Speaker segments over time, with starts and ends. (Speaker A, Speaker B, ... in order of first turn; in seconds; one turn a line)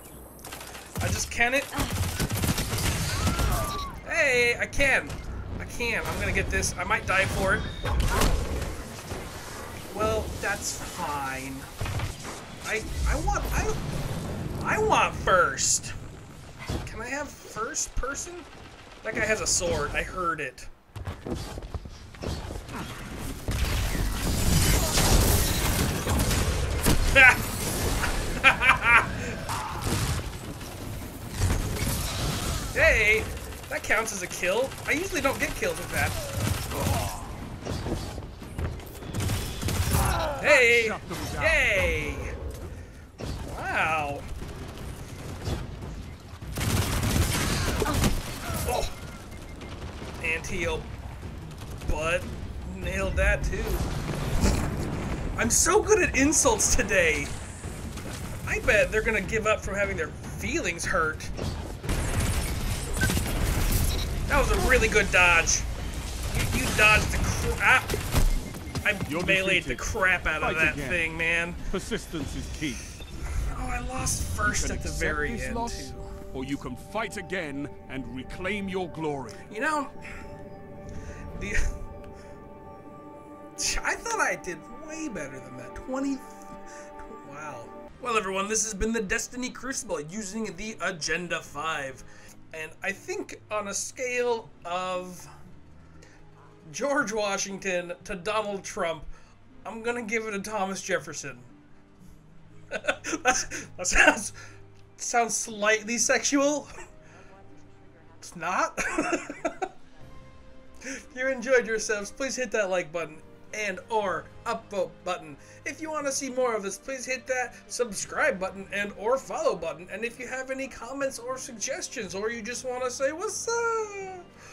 Speaker A: 1.0-1.8
Speaker A: 4.0-7.7
Speaker A: 9.9-11.7
Speaker A: 12.6-13.8
Speaker A: 14.6-15.9
Speaker A: 16.8-18.5
Speaker A: 19.0-20.7
Speaker A: 27.1-27.4
Speaker A: 28.3-29.4
Speaker A: 32.7-36.2
Speaker A: 40.4-42.3
Speaker B: 40.4-41.6
Speaker A: 43.4-44.2
Speaker A: 48.6-49.0
Speaker A: 50.2-50.9
Speaker A: 51.9-53.9
Speaker A: 55.4-57.4
Speaker A: 58.4-61.3
Speaker A: 64.3-65.7
Speaker A: 66.3-68.0
Speaker A: 68.8-71.6
Speaker B: 69.0-69.9
Speaker B: 70.4-71.0
Speaker B: 71.7-72.8
Speaker A: 73.3-76.1
Speaker B: 74.4-79.4
Speaker A: 79.5-79.9
Speaker A: 81.3-81.7
Speaker A: 83.6-95.3
Speaker A: 96.7-99.1
Speaker A: 99.6-101.5
Speaker A: 102.7-104.4
Speaker A: 105.0-106.7
Speaker A: 108.2-109.7
Speaker A: 110.8-124.3